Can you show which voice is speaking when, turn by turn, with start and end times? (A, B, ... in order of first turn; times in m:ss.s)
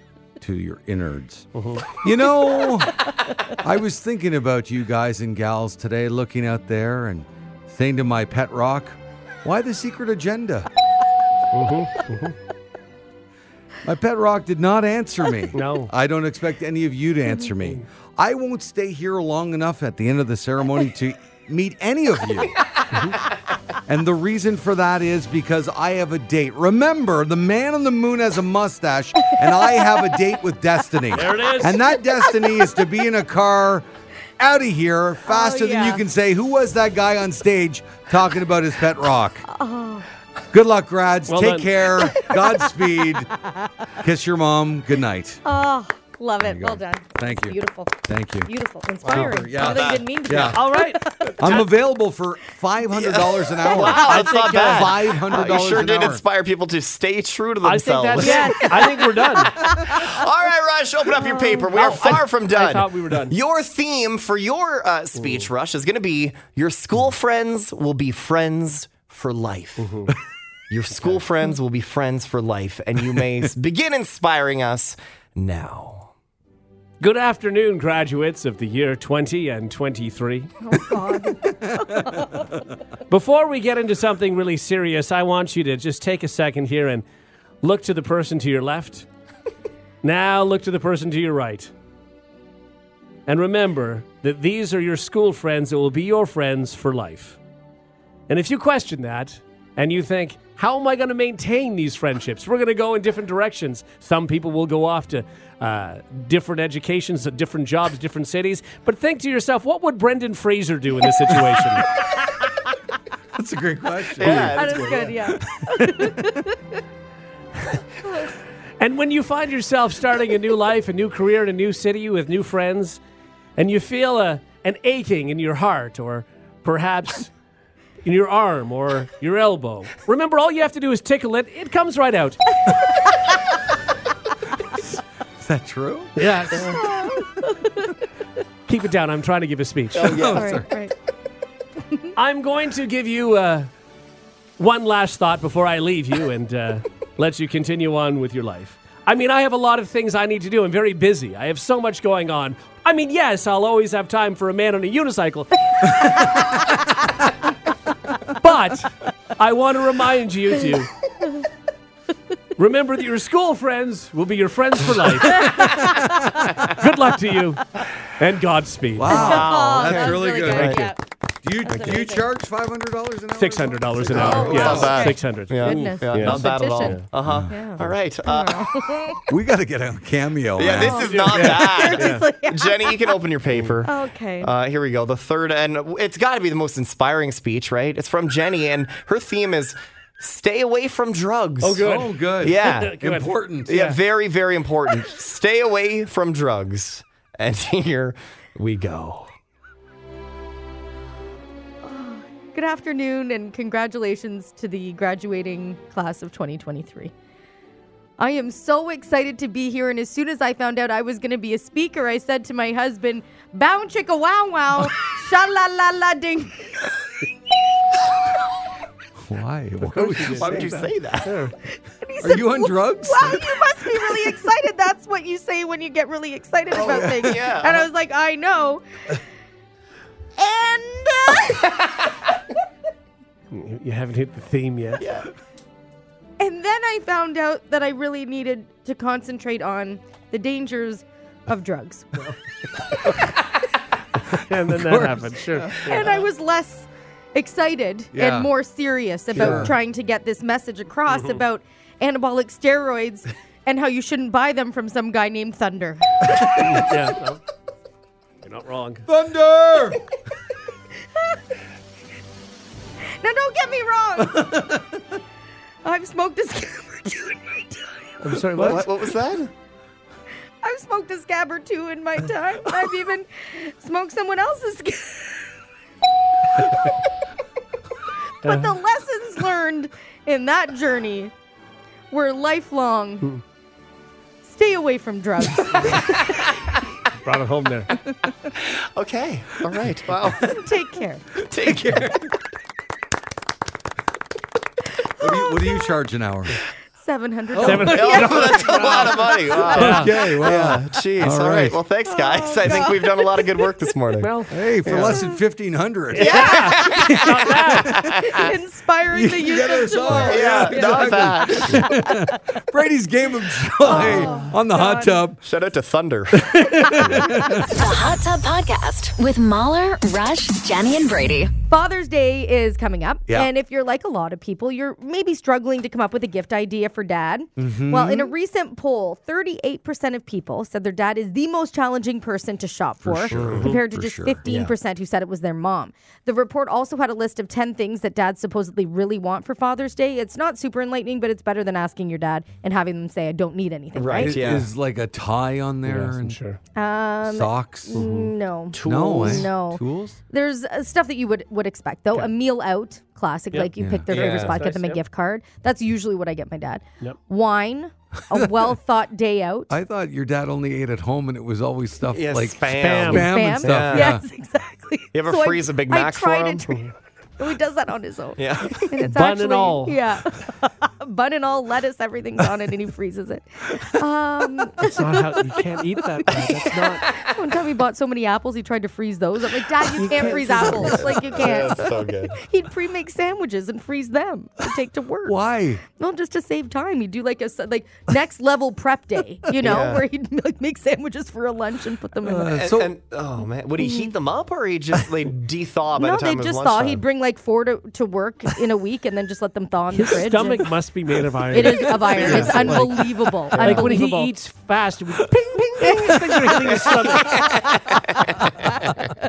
0:00.4-0:10.7 A
0:01.5-0:02.0 B
0:02.5-0:03.1 C
0:11.5-0:12.3 B
0:13.8-0:22.6 A
0:15.5-0:15.9 B
0:22.9-0:23.2 B
0:23.8-0:33.8 A
0:29.3-0:29.8 C
0:31.1-0:31.9 B
0:34.4-0:39.4 A
0:35.3-0:36.0 C
0:39.5-0:40.0 C
0:40.5-0:43.3 A
0:41.3-0:41.7 B
0:44.0-0:45.4 A
0:45.4-0:51.6 C
0:46.4-0:48.5 A
0:49.0-0:49.3 B
0:49.0-0:50.6 A
0:49.5-0:50.0 D
0:50.4-0:51.7 B
0:51.4-0:56.2 A
0:52.9-0:58.6 D
0:53.6-0:54.8 C
0:54.1-0:54.9 B
0:57.6-0:59.5 B
0:58.2-1:00.2 C
0:59.6-1:10.0 D
1:01.2-1:01.7 C
1:01.6-1:03.4 B
1:05.2-1:05.5 B
1:09.8-1:10.1 B
1:10.7-1:16.1 D
1:11.0-1:11.2 B
1:13.0-1:13.5 A
1:17.0-1:20.5 B
1:20.6-1:22.5 C
1:21.2-1:22.6 A
1:23.1-1:27.0 B
1:27.6-1:29.1 B
1:30.0-1:31.7 B
1:33.3-1:37.4 B
1:38.3-1:51.9 B
1:53.3-1:56.5 A
1:54.2-1:55.0 D
1:54.2-1:54.9 B
1:54.5-1:56.6 C
1:58.8-2:03.0 B
2:03.6-2:07.3 B
2:08.0-2:12.6 B
2:15.4-2:16.1 A
2:16.2-2:16.8 B
2:16.5-2:16.8 D
2:16.7-2:18.0 C
2:18.7-2:20.3 B
2:19.9-2:20.6 D
2:20.0-2:20.8 A
2:20.3-2:20.9 C
2:22.1-2:23.7 B
2:24.6-2:36.5 B
2:38.3-2:40.9 B
2:42.6-2:49.6 B
2:45.3-2:46.0 A
2:45.4-2:46.3 C
2:48.9-2:50.9 A
2:49.1-2:51.0 C
2:49.1-2:50.8 D
2:50.3-2:50.9 B
2:51.4-2:55.1 A
2:51.6-2:52.3 C
2:53.3-2:57.0 B
2:54.1-2:59.1 D
2:54.1-2:59.3 C
2:57.2-2:57.9 A
2:59.3-3:01.3 A
3:00.6-3:11.8 D
3:00.7-3:03.2 C
3:01.3-3:02.2 B
3:03.8-3:04.5 C
3:11.6-3:14.0 B
3:11.8-3:13.9 A
3:12.4-3:13.0 D
3:13.6-3:19.3 D
3:21.8-3:27.1 C
3:28.2-3:36.9 C
3:39.2-3:40.9 A
3:39.9-3:41.4 D
3:39.9-3:41.5 B
3:41.7-3:48.8 C
3:42.2-3:44.1 A
3:46.7-3:47.9 D
3:50.4-3:51.7 C
3:51.4-3:52.1 D
3:53.5-3:55.0 B
3:55.0-3:55.3 D
3:56.4-4:02.1 C
4:04.3-4:06.0 B
4:04.5-4:05.8 A
4:05.7-4:16.8 C
4:08.1-4:08.5 A
4:09.3-4:09.7 A
4:09.4-4:09.7 B
4:11.1-4:11.4 B
4:16.6-4:17.4 B
4:18.4-4:19.0 B
4:19.0-4:20.0 A
4:23.2-4:24.6 C
4:24.2-4:25.2 A
4:25.8-4:28.3 C
4:28.2-4:28.9 B
4:28.6-4:29.5 D
4:30.6-4:35.5 C
4:36.6-4:37.0 C
4:38.4-4:41.3 C
4:38.4-4:38.7 B
4:42.1-4:43.3 C
4:44.4-4:46.4 C
4:47.2-4:47.9 B
4:48.5-4:50.6 D
4:50.4-4:51.3 C
4:51.4-4:52.2 D
4:51.5-4:52.3 A
4:55.2-4:56.6 A
4:55.2-4:55.5 C
4:57.0-5:00.0 C
4:57.5-4:58.3 A
4:57.6-5:00.7 B
4:57.9-5:04.3 D
4:59.7-5:01.8 A
5:02.0-5:03.7 C
5:04.2-5:04.5 B
5:04.5-5:08.5 A
5:04.8-5:05.2 D
5:05.1-5:05.4 C
5:06.1-5:08.0 B
5:06.2-5:08.5 D
5:08.2-5:12.6 C
5:09.1-5:15.4 A
5:10.2-5:11.9 D
5:13.8-5:15.2 C
5:14.0-5:14.3 D
5:15.4-5:16.5 D
5:16.3-5:17.8 A
5:16.9-5:17.3 C
5:17.7-5:21.5 E
5:21.7-5:44.6 C
5:27.6-5:28.3 A
5:33.0-5:34.4 A
5:33.3-5:33.7 D
5:34.4-5:34.7 D
5:43.9-5:44.7 D
5:44.1-5:46.4 A
5:45.8-5:46.6 B
5:46.8-5:59.7 C
5:47.3-5:48.0 A
5:47.9-5:48.3 B
5:48.7-5:49.5 D
5:48.7-5:50.2 A
5:53.5-5:55.0 B
5:53.8-5:54.1 A
5:54.1-5:54.6 D
5:58.3-5:58.7 A
5:59.7-6:04.2 A
6:02.1-6:04.1 D
6:02.8-6:03.3 B
6:03.2-6:06.7 C
6:05.1-6:06.7 D
6:06.7-6:06.9 B
6:07.4-6:25.4 C
6:08.4-6:08.9 D
6:09.1-6:10.1 B
6:14.8-6:17.1 B
6:16.3-6:17.4 D
6:20.0-6:21.1 B
6:20.7-6:22.4 D
6:25.2-6:25.8 A
6:25.9-6:32.6 C
6:29.6-6:30.0 D
6:32.2-6:32.9 A
6:32.5-6:37.0 D
6:33.8-6:34.1 C
6:36.0-6:40.7 C
6:39.9-6:47.5 B
6:41.5-6:44.3 C
6:41.6-6:42.9 A
6:42.2-6:42.7 D
6:43.5-6:44.0 A
6:45.7-6:47.8 A
6:45.8-6:47.0 C
6:46.8-6:48.7 D